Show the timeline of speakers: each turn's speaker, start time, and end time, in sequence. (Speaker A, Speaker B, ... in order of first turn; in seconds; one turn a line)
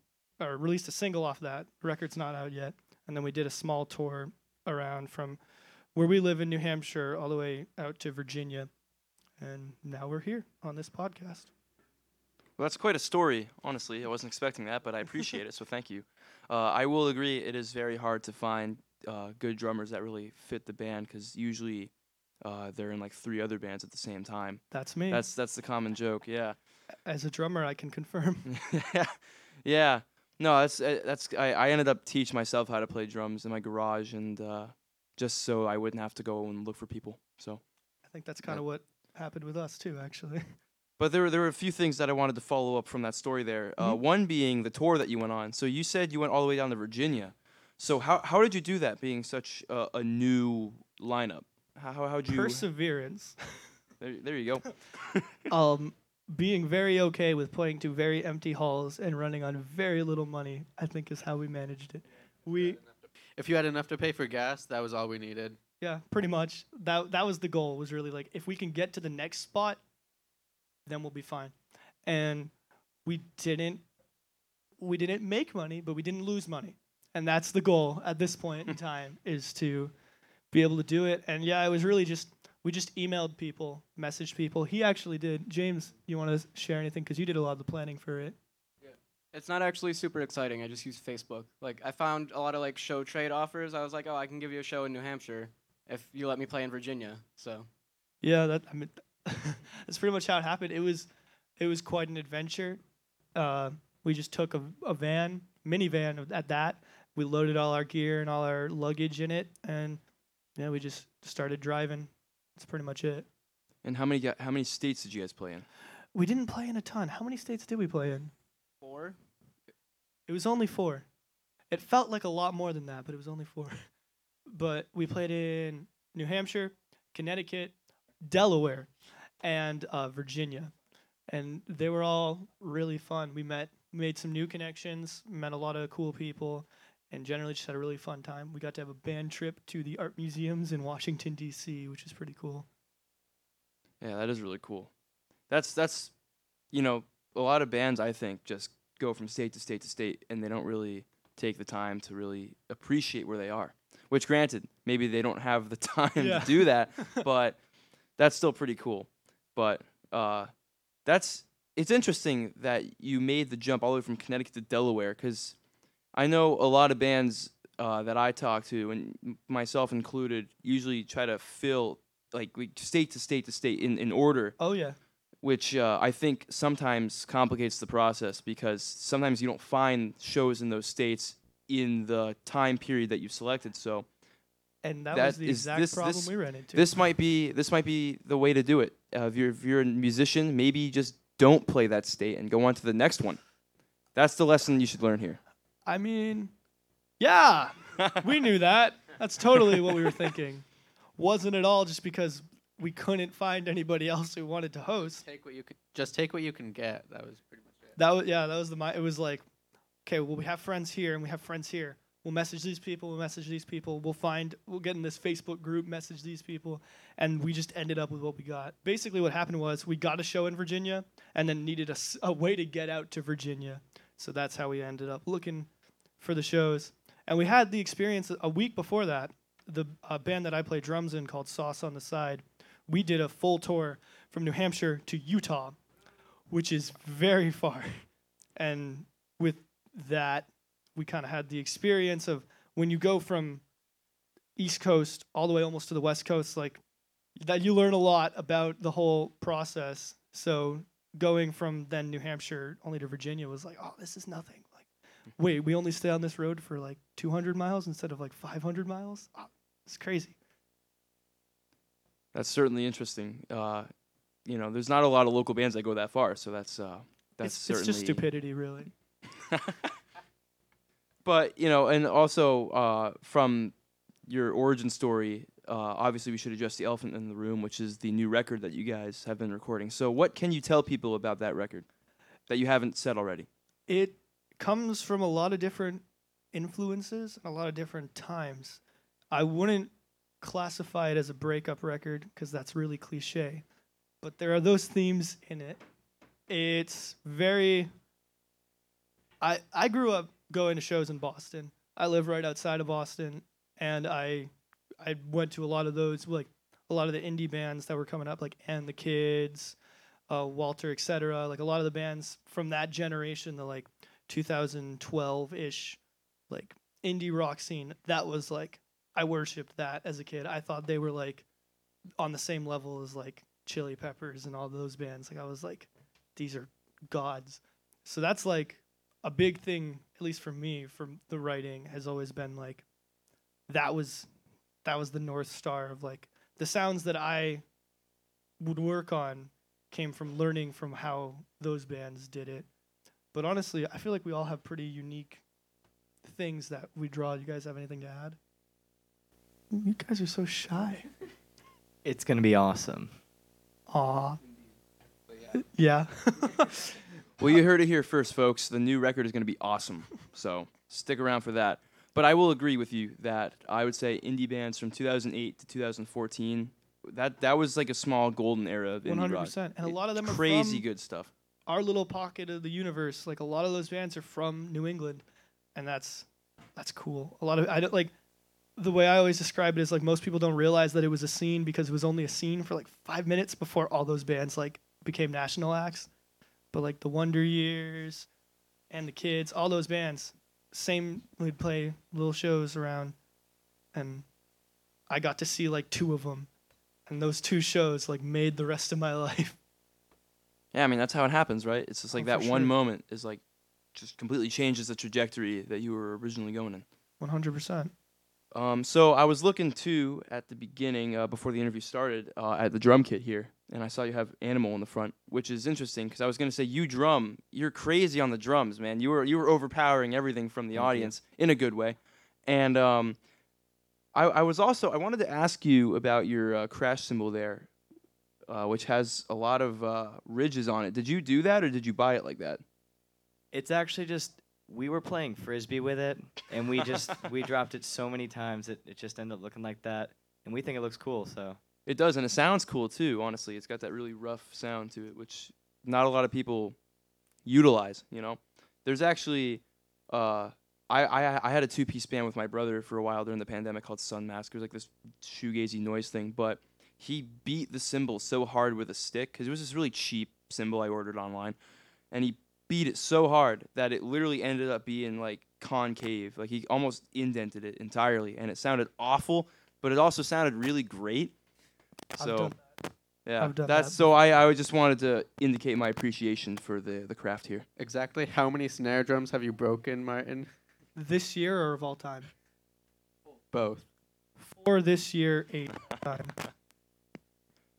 Speaker A: 0.4-5.4
Speaker A: 6.0-8.7
Speaker A: 9.4-11.5
Speaker B: 12.6-21.9
Speaker B: 22.4-26.6
Speaker A: 24.7-25.2
Speaker A: 27.1-28.5
Speaker B: 28.5-37.6
Speaker A: 38.1-40.4
Speaker B: 41.0-52.7
Speaker A: 52.3-53.4
Speaker B: 54.0-55.3
Speaker A: 55.5-62.8
Speaker C: 63.4-65.6
Speaker A: 65.8-69.8
Speaker A: 70.9-72.5
Speaker A: 73.0-73.8
Speaker A: 74.8-79.9
Speaker A: 80.5-88.4
Speaker D: 89.3-97.7
Speaker A: 98.2-102.8
Speaker A: 103.4-110.0
Speaker A: 110.6-113.3
Speaker B: 113.8-115.7
Speaker A: 116.1-118.3
Speaker D: 118.8-119.2
Speaker A: 120.3-121.1
Speaker A: 121.7-123.8
Speaker A: 124.5-128.9
Speaker A: 129.4-130.7
Speaker A: 131.3-142.7
Speaker B: 144.0-144.9
Speaker B: 145.5-146.1
Speaker B: 146.7-157.6
Speaker A: 156.2-157.2
Speaker B: 158.2-160.5
Speaker B: 161.1-165.6
Speaker B: 166.1-174.6
Speaker A: 174.6-175.0
Speaker B: 175.4-184.1
Speaker A: 184.8-186.9
Speaker B: 185.1-193.4
Speaker B: 194.2-195.4
Speaker A: 195.9-196.5
Speaker A: 197.2-205.2
Speaker C: 205.1-207.9
Speaker A: 208.0-209.4
Speaker A: 210.1-225.7
Speaker A: 226.2-235.8
Speaker A: 236.5-238.0
Speaker A: 238.6-243.6
Speaker A: 244.6-246.8
Speaker A: 247.4-260.4
Speaker B: 262.3-263.9
Speaker B: 264.5-268.2
Speaker A: 267.4-268.9
Speaker B: 269.5-269.9
Speaker B: 271.2-273.7
Speaker B: 274.3-281.9
Speaker B: 282.5-283.5
Speaker A: 283.9-293.6
Speaker A: 294.2-295.8
Speaker A: 296.5-297.9
Speaker A: 299.4-304.5
Speaker A: 305.0-309.8
Speaker A: 310.3-321.4
Speaker A: 322.2-332.9
Speaker A: 333.7-334.3
Speaker A: 334.8-337.6
Speaker A: 338.6-342.7
Speaker A: 343.3-345.4
Speaker A: 346.2-348.4
Speaker A: 349.7-351.1
Speaker E: 352.0-353.1
Speaker A: 353.9-354.4
Speaker A: 355.5-357.0
Speaker B: 357.4-371.3
Speaker A: 369.1-370.9
Speaker A: 371.7-378.1
Speaker A: 378.8-386.1
Speaker A: 386.7-388.3
Speaker A: 388.9-393.2
Speaker A: 393.9-394.3
Speaker A: 395.1-396.5
Speaker A: 397.1-399.6
Speaker B: 400.7-403.4
Speaker A: 402.1-402.7
Speaker B: 403.9-406.9
Speaker A: 407.2-407.9
Speaker B: 408.5-423.2
Speaker B: 424.1-427.7
Speaker B: 428.5-432.6
Speaker E: 433.5-441.6
Speaker B: 441.9-446.8
Speaker B: 447.4-461.6
Speaker B: 462.1-471.3
Speaker B: 472.1-472.6
Speaker A: 472.2-472.8
Speaker B: 473.2-477.7
Speaker A: 473.4-474.0
Speaker C: 477.8-480.5
Speaker A: 481.0-482.3
Speaker C: 483.5-483.9
Speaker A: 484.4-486.4